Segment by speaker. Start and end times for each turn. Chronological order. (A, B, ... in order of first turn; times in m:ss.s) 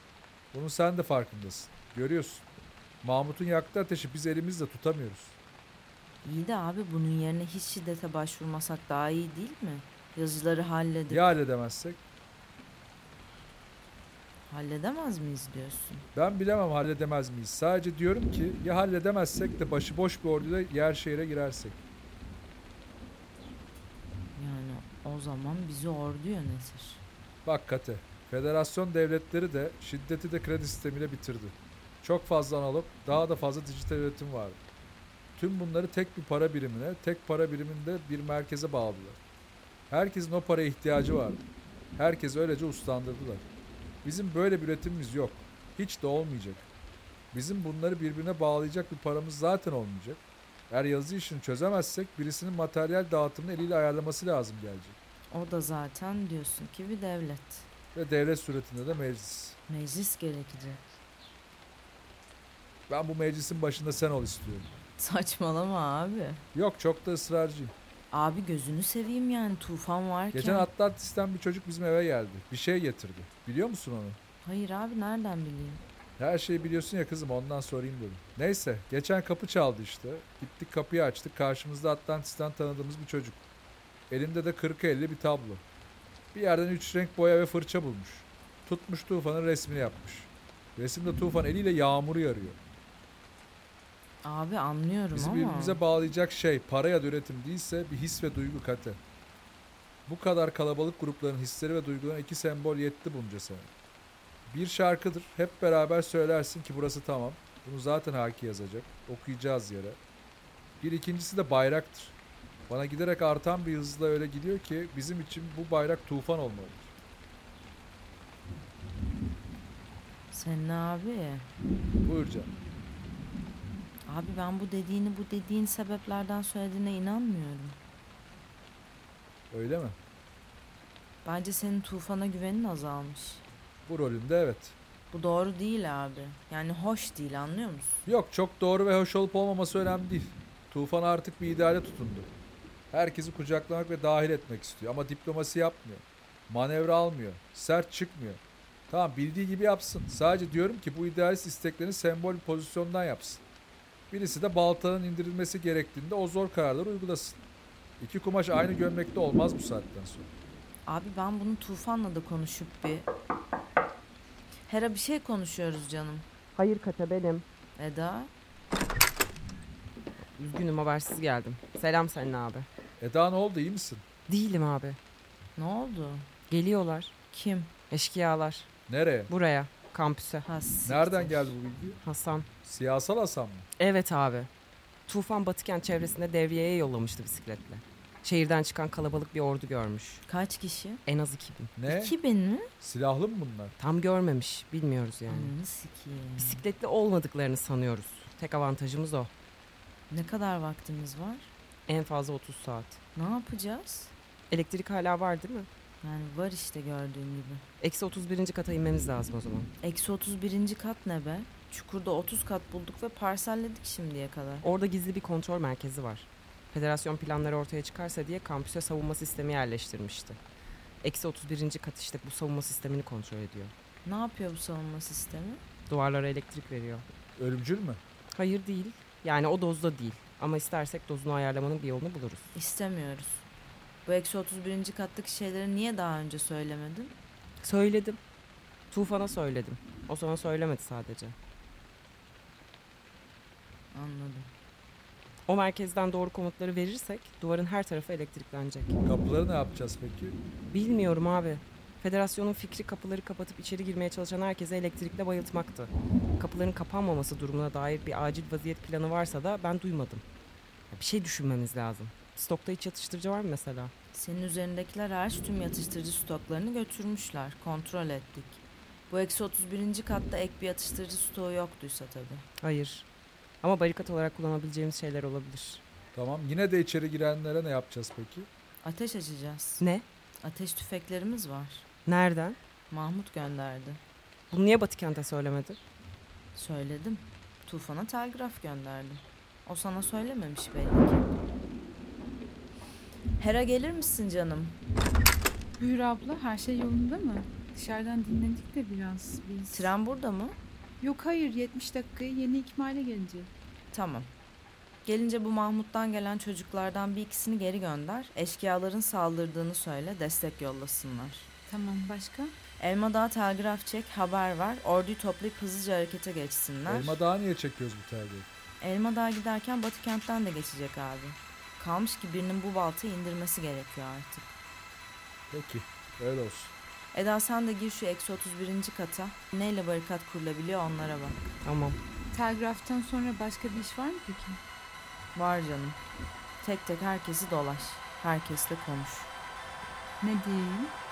0:00.5-0:02.5 A
0:03.0-0:05.4 A
0:06.2-0:11.3 B
0:11.1-0:12.0 A
0:14.5-0:16.1 B
0:16.1-0:21.8 A
0:24.4-0:27.0 B
0:27.4-0:34.6 A
0:35.4-0:39.2 A
0:39.9-0:41.4 A
0:42.0-0:43.5 A
0:44.0-0:46.7 A
0:47.3-0:55.0 A
0:55.3-0:57.7 B
0:58.0-0:59.6 A
0:59.7-1:00.8 B
1:02.9-1:04.7 A
1:05.0-1:06.4 B
1:06.5-1:07.7 A
1:08.1-1:10.7 B
1:10.3-1:14.2 A
1:14.4-1:15.8 B
1:16.2-1:23.4 A
1:24.1-1:25.6 A
1:26.3-1:32.6 A
1:34.2-1:35.8 B
1:35.1-1:39.0 A
1:40.1-1:43.7 A
1:44.5-1:50.0 A
1:50.8-1:52.2 A
1:52.7-1:56.9 A
2:00.3-2:01.5 B
2:02.0-2:02.5 A
2:04.1-2:07.8 B
2:09.5-2:10.0 A
2:11.2-2:13.4 B
2:13.9-2:14.8 A
2:15.1-2:18.1 B
2:18.1-2:22.3 A
2:22.9-2:33.4 A
2:34.1-2:37.4 A
2:38.0-2:40.3 A
2:40.9-2:43.1 B
2:44.7-2:46.3 B
2:46.6-2:47.4 C
2:47.8-2:48.3 B
2:50.4-2:52.7 C
2:53.0-2:54.0 A
2:54.3-2:55.0 C
2:55.6-2:56.3 B
2:56.5-2:57.1 C
2:57.3-2:57.7 B
2:57.9-2:58.7 C
2:58.9-2:59.3 A
2:59.3-3:00.4 C
3:00.4-3:01.6 B
3:00.8-3:02.0 A
3:02.0-3:02.5 C
3:02.6-3:03.7 A
3:03.8-3:04.5 C
3:05.1-3:10.2 C
3:10.3-3:11.0 B
3:11.1-3:11.7 C
3:11.8-3:12.2 A
3:11.9-3:12.7 B
3:12.8-3:13.7 A
3:13.8-3:15.5 C
3:15.3-3:16.6 B
3:16.4-3:19.3 C
3:20.1-3:21.5 B
3:21.9-3:23.0 C
3:23.2-3:24.1 B
3:24.5-3:25.7 C
3:26.0-3:27.6 B
3:27.8-3:29.7 C
3:29.8-3:34.7 B
3:34.7-3:40.4 C
3:41.0-3:43.7 C
3:44.0-3:45.6 B
3:45.9-3:47.0 C
3:47.4-3:48.0 A
3:48.4-3:52.5 C
3:52.5-3:53.5 B
3:54.1-3:57.2 B
3:57.6-3:58.2 C
3:58.9-4:01.4 C
4:03.9-4:04.5 B
4:05.5-4:09.0 C
4:09.0-4:10.4 A
4:10.7-4:20.2 C
4:20.9-4:23.9 C
4:24.2-4:32.4 B
4:32.6-4:33.1 C
4:33.6-4:35.8 C
4:36.2-4:38.5 A
4:38.8-4:39.8 B
4:40.4-4:41.9 B
4:42.1-4:42.6 C
4:42.9-4:44.0 B
4:44.5-4:45.8 C
4:46.6-4:51.3 B
4:53.4-4:54.8 B
4:55.8-4:59.9 D
4:59.7-5:00.6 B
5:01.0-5:03.5 D
5:03.9-5:04.3 B
5:05.0-5:11.5 B
5:11.7-5:12.6 D
5:12.8-5:17.2 B
5:16.9-5:18.5 A
5:18.8-5:24.5 B
5:25.5-5:26.7 A
5:27.1-5:31.4 B
5:31.6-5:32.0 C
5:32.3-5:34.6 D
5:35.4-5:36.0 B
5:36.6-5:39.3 B
5:40.2-5:41.0 D